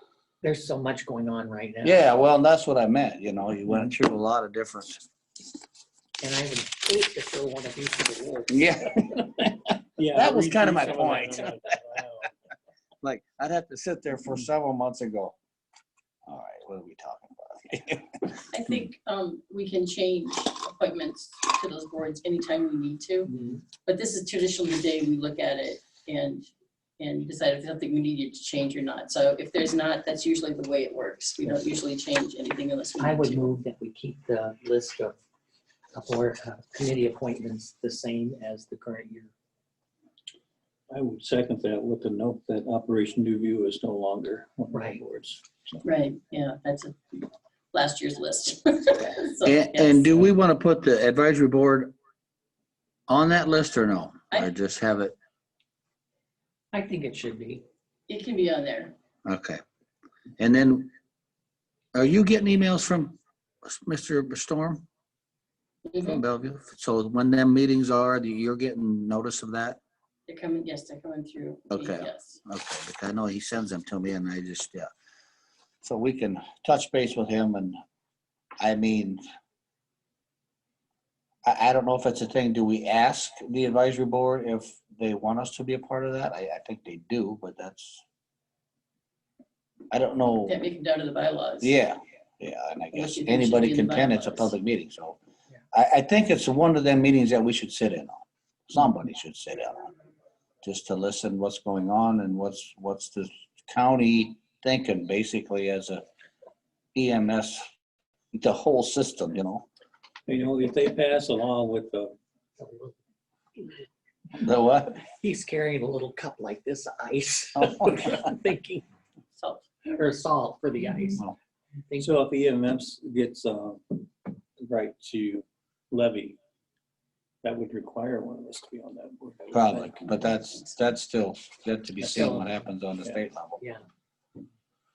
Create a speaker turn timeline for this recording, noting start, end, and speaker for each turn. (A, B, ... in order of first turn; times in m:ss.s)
0:00.4-0:02.0 A
0:01.8-0:05.0 B
0:06.2-0:08.6 A
0:08.5-0:09.5 B
0:10.0-0:12.3 C
0:10.1-0:11.5 B
0:13.0-0:15.4 B
0:16.3-0:18.4 B
0:18.5-0:23.3 D
0:23.3-0:23.6 A
0:23.8-0:33.5 D
0:33.0-0:35.2 A
0:35.9-0:39.3 A
0:40.9-0:45.8 C
0:44.7-0:45.0 A
0:45.8-0:50.3 D
0:49.4-0:51.9 B
0:53.1-0:55.2 B
0:56.7-0:57.6 A
0:58.1-0:58.9 D
0:59.2-0:59.6 B
1:00.4-1:00.9 B
1:02.0-1:04.8 B
1:05.9-1:06.2 D
1:06.0-1:09.8 B
1:10.3-1:12.4 D
1:11.7-1:14.9 B
1:15.8-1:17.8 B
1:18.6-1:19.2 B
1:21.5-1:28.0 B
1:29.9-1:30.6 B
1:30.5-1:31.8 D
1:31.6-1:35.2 B
1:32.9-1:34.5 D
1:35.7-1:39.9 B
1:40.6-1:46.0 B
1:47.0-1:47.6 B
1:48.4-1:49.7 B
1:50.3-1:52.2 C
1:52.6-1:53.0 A
1:53.6-1:53.9 A
1:54.4-1:55.0 B
1:55.0-1:58.8 A
1:57.6-1:58.2 B
1:59.4-1:59.6 D
1:59.8-2:01.3 A
2:01.9-2:02.1 A
2:02.0-2:06.4 C
2:07.4-2:10.3 C
2:09.5-2:13.6 B
2:12.0-2:12.7 A